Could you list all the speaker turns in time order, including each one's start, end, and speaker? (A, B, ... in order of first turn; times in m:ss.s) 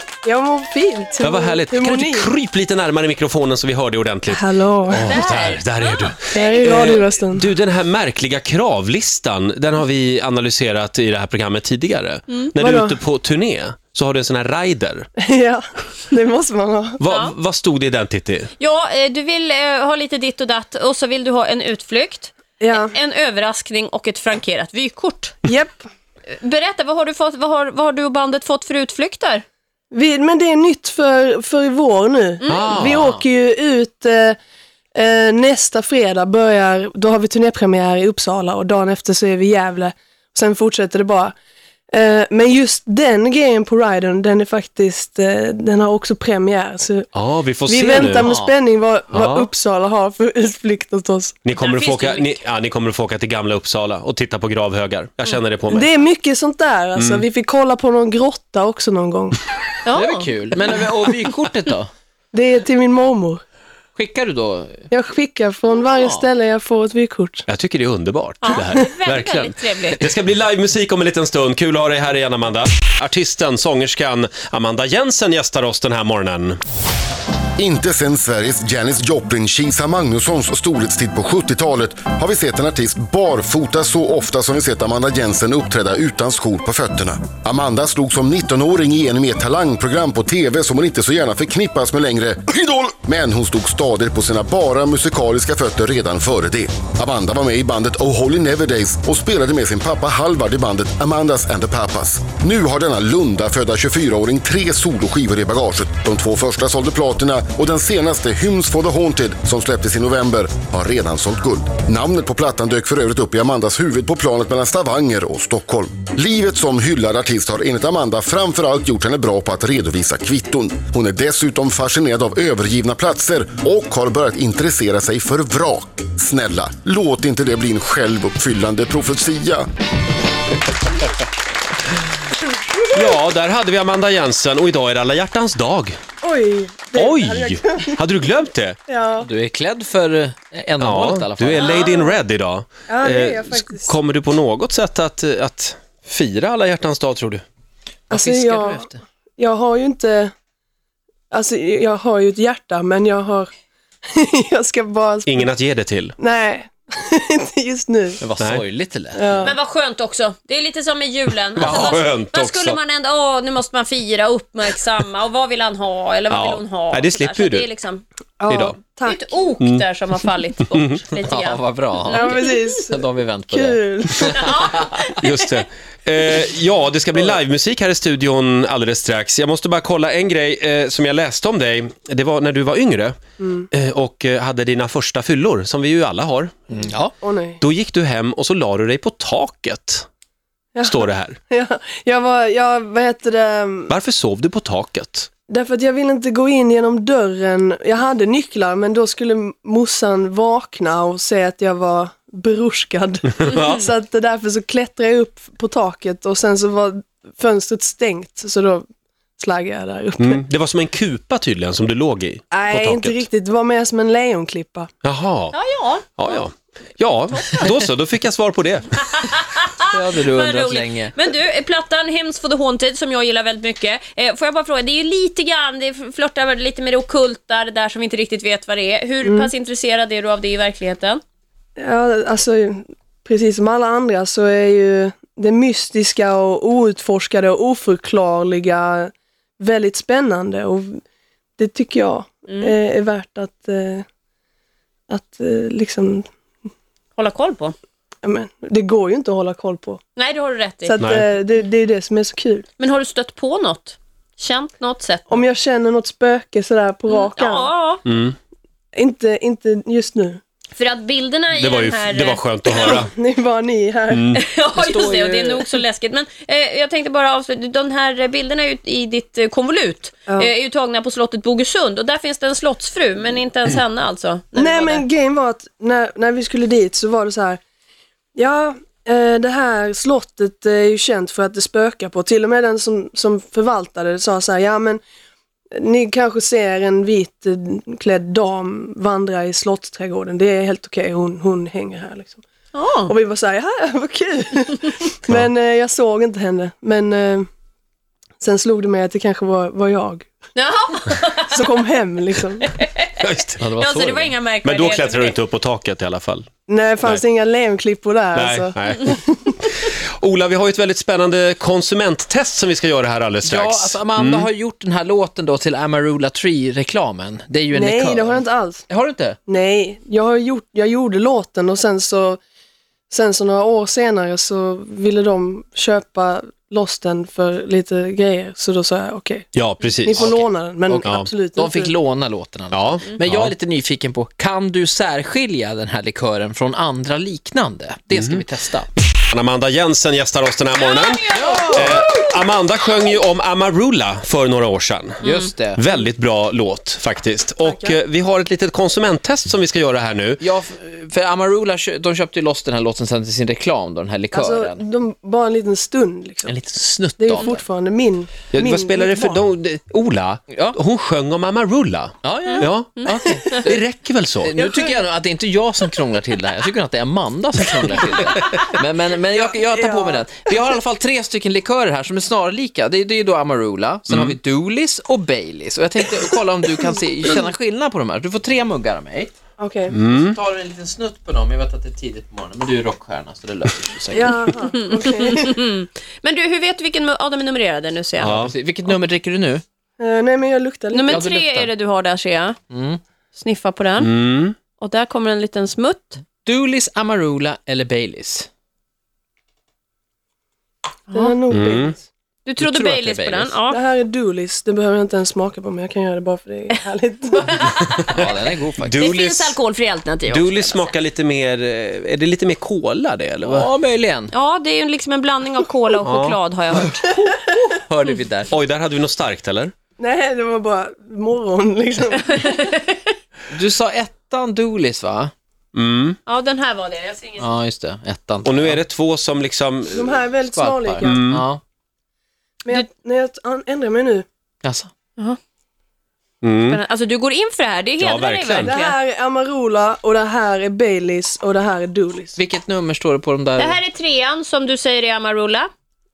0:00.2-0:02.3 A
0:01.2-0:15.1 B
0:04.3-0:05.2 A
0:05.0-0:07.0 C
0:06.3-0:07.5 A
0:12.6-0:13.0 A
0:15.2-0:17.0 A
0:17.0-0:18.5 B
0:17.0-0:17.3 C
0:18.6-0:25.4 C
0:22.6-0:23.0 A
0:25.4-0:25.8 A
0:26.3-0:29.4 C
0:29.9-0:34.4 A
0:32.4-0:32.7 C
0:32.5-0:33.1 B
0:32.7-0:33.2 D
0:34.9-0:41.3 A
0:41.9-0:47.1 A
0:47.1-0:48.3 B
0:47.6-0:51.4 A
0:48.2-0:48.5 D
0:49.1-0:49.5 B
0:51.4-0:55.9 B
0:51.6-0:52.4 C
0:55.7-0:59.4 A
0:57.0-0:57.2 B
0:59.8-1:00.3 C
0:59.9-1:01.9 D
1:02.3-1:03.4 A
1:04.0-1:04.8 D
1:04.9-1:07.4 A
1:05.9-1:06.2 D
1:07.5-1:16.6 B
1:08.4-1:10.0 C
1:17.6-2:09.6 E
2:12.9-2:16.0 B
2:16.2-2:18.0 A
2:16.9-2:18.8 B
2:18.9-2:19.3 A
2:19.2-2:21.8 D
2:20.8-2:27.4 B
2:21.6-2:22.2 A
2:22.9-2:24.0 A
2:28.1-2:29.0 D
2:28.1-2:30.3 A
2:31.3-2:33.5 A
2:34.1-2:35.5 A
2:35.3-2:36.2 B
2:36.2-2:38.2 A
2:38.2-2:39.5 D
2:38.4-2:38.6 B
2:39.1-2:39.5 A
2:39.4-2:48.0 C
2:41.6-2:42.8 B
2:46.3-2:47.7 B
2:48.4-2:49.5 A
2:48.5-2:48.8 B
2:49.0-2:52.7 C
2:49.6-2:49.8 B
2:50.7-2:51.0 B
2:51.2-2:54.9 D
2:52.1-2:54.8 A
2:54.2-2:55.5 C
2:55.1-3:03.2 B
3:03.4-3:03.7 A
3:03.7-3:06.6 B
3:06.7-3:07.1 D
3:07.2-3:07.6 A
3:07.6-3:10.0 B
3:10.7-3:13.9 A
3:10.8-3:11.4 B
3:13.9-3:15.3 B
3:15.5-3:28.8 A
3:23.4-3:23.8 B
3:23.5-3:23.8 C
3:29.4-3:30.4 A
3:30.2-3:33.2 B
3:32.5-3:34.9 A
3:35.0-3:35.6 B
3:35.5-3:36.4 C
3:36.2-3:39.1 B
3:37.4-3:37.7 C
3:39.0-3:51.2 C
3:39.9-3:41.2 D
3:49.2-3:49.5 A
3:51.8-4:01.0 A
4:01.6-4:04.0 A
4:02.5-4:02.7 C
4:05.1-4:06.2 A
4:07.2-4:07.7 C
4:08.2-4:10.0 A
4:10.2-4:11.0 C
4:10.8-4:12.7 A
4:11.0-4:11.3 B
4:12.8-4:15.4 C
4:15.3-4:17.7 A
4:17.1-4:18.0 C
4:18.0-4:18.4 B
4:18.9-4:20.4 A
4:20.8-4:23.0 C
4:21.6-4:23.1 B
4:22.7-4:24.3 A
4:24.1-4:24.4 B
4:24.3-4:35.0 C
4:24.7-4:25.8 D
4:34.6-4:37.6 A
4:38.4-4:45.0 A
4:45.7-4:52.4 A
4:52.7-4:53.1 C
4:53.1-4:57.5 A
4:58.4-5:00.3 A
5:00.5-5:01.7 C
5:01.5-5:02.7 A
5:02.7-5:03.2 C
5:03.2-5:03.6 B
5:03.6-5:04.4 D
5:03.8-5:05.4 C
5:04.6-5:06.5 B
5:06.7-5:09.5 A
5:08.3-5:14.5 B
5:13.4-5:19.4 D
5:17.7-5:18.8 A
5:19.4-5:22.4 A
5:23.1-5:31.9 A
5:29.5-5:30.3 B
5:30.1-5:38.9 D
5:31.0-5:31.3 B
5:32.7-5:33.6 B
5:38.1-5:38.4 B
5:39.2-5:45.2 B
5:40.8-5:42.1 C
5:41.3-5:42.0 D
5:45.2-5:45.8 D
5:45.7-5:50.4 B
5:47.6-5:48.0 A
5:50.4-5:54.8 D
5:54.3-5:56.6 A
5:56.4-5:57.6 D
5:57.2-5:59.4 A
5:58.5-6:04.5 B
6:00.5-6:00.8 D
6:02.2-6:03.8 D
6:02.5-6:03.6 C
6:04.4-6:19.3 D
6:04.6-6:04.9 A
6:09.3-6:10.3 A
6:14.1-6:14.4 B
6:19.6-6:19.9 A
6:19.9-6:20.4 B
6:20.0-6:24.5 D
6:24.1-6:25.6 A
6:24.7-6:28.3 C
6:28.2-6:28.5 B
6:28.2-6:29.6 D
6:30.0-6:31.2 A
6:30.9-6:32.6 C
6:31.1-6:31.7 D
6:32.7-6:33.0 D
6:33.3-6:34.1 C
6:34.0-6:34.6 B
6:34.7-6:36.2 C
6:36.4-6:38.5 D
6:41.1-6:41.4 C
6:41.1-6:42.0 A
6:41.5-6:42.0 B
6:42.4-6:43.8 C
6:42.6-6:43.6 D
6:43.7-6:47.8 A
6:47.3-6:48.3 C
6:48.1-6:49.1 D
6:48.8-6:49.6 B
6:48.9-6:50.9 C
6:50.3-6:53.7 B
6:53.4-6:54.3 D
6:54.3-6:57.0 C
6:56.0-6:56.4 B
6:56.7-6:58.5 D
6:58.5-6:59.7 B
7:00.0-7:02.7 A
7:02.2-7:03.1 C
7:03.5-7:05.3 D
7:05.7-7:06.2 B
7:06.3-7:07.5 C
7:07.4-7:08.8 D
7:08.4-7:10.2 B
7:09.9-7:11.2 A
7:10.5-7:11.6 D
7:11.0-7:11.4 B
7:12.6-7:14.2 A
7:14.6-7:14.9 D
7:16.4-7:16.8 B
7:16.6-7:19.0 C
7:18.0-7:18.8 B
7:18.6-7:22.3 A
7:22.4-7:23.8 D
7:23.6-7:25.7 C